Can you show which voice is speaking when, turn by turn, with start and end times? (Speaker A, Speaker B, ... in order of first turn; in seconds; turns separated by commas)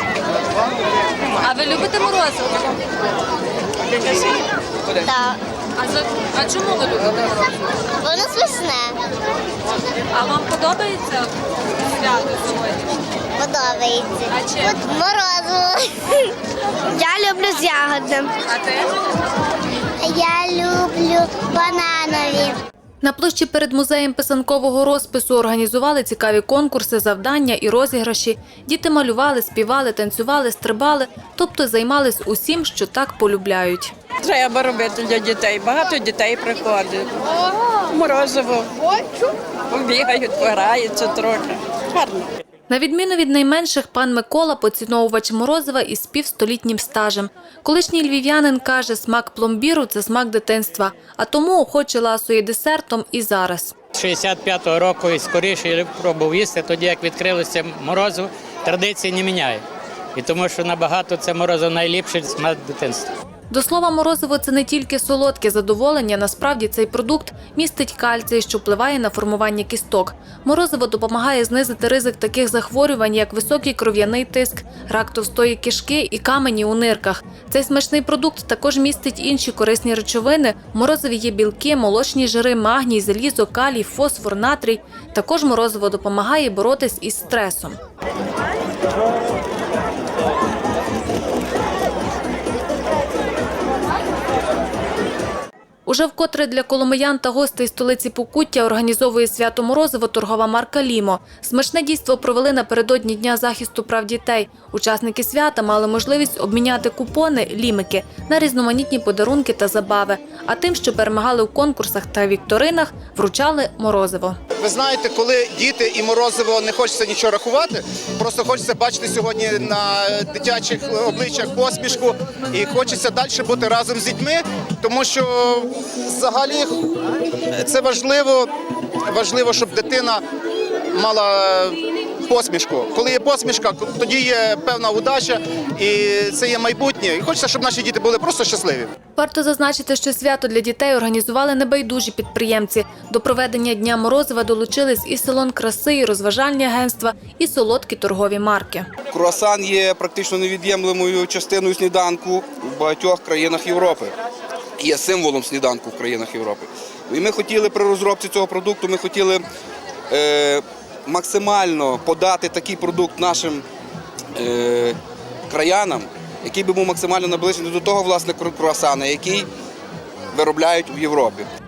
Speaker A: 5.0-5.4, Speaker A: 8.0-8.9, Speaker A: 13.4-15.8, Speaker A: 16.9-18.3, Speaker A: 20.0-22.5, Speaker B: 23.0-33.9, Speaker C: 34.2-37.1, Speaker C: 37.9-38.6, Speaker C: 39.7-41.4, Speaker B: 42.7-53.7, Speaker D: 53.9-59.6, Speaker D: 60.1-63.1, Speaker B: 63.5-87.8, Speaker B: 95.8-114.4, Speaker E: 114.6-126.9, Speaker E: 127.6-128.5, Speaker E: 129.1-130.2, Speaker E: 130.9-138.9, Speaker B: 139.2-148.9, Speaker F: 149.1-154.1, Speaker F: 154.8-159.4, Speaker F: 160.1-163.6, Speaker F: 164.3-165.0, Speaker F: 165.5-169.5, Speaker F: 170.3-171.5